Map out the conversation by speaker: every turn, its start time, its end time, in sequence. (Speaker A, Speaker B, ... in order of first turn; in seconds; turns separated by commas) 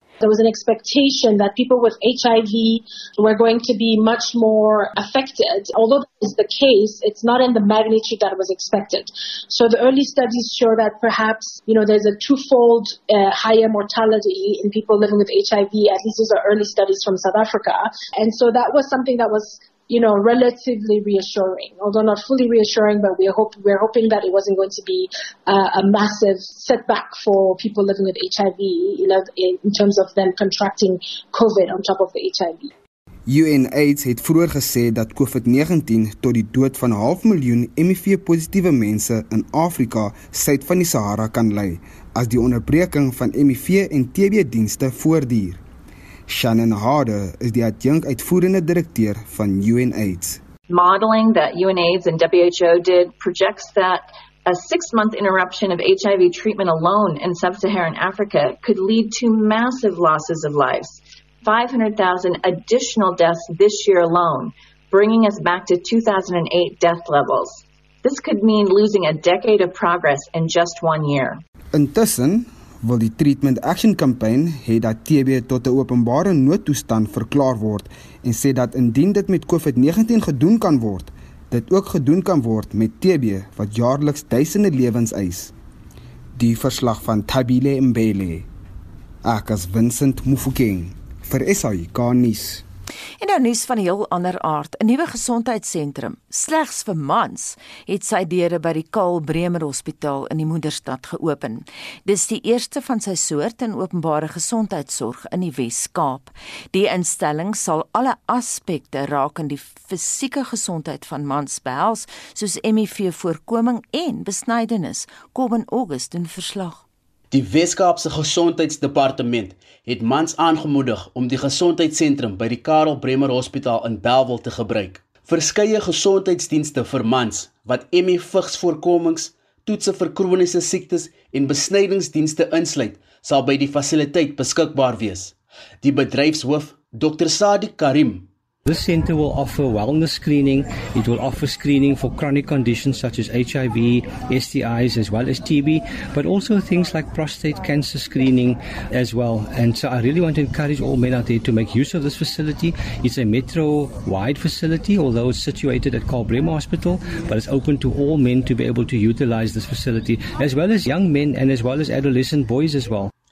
Speaker A: 0.2-32.7, Speaker B: 33.3-45.6, Speaker B: 46.3-50.4, Speaker C: 50.7-71.4, Speaker B: 71.7-85.5, Speaker B: 86.3-88.5, Speaker B: 89.2-92.6, Speaker D: 93.2-116.8, Speaker E: 117.3-138.3, Speaker F: 138.7-163.1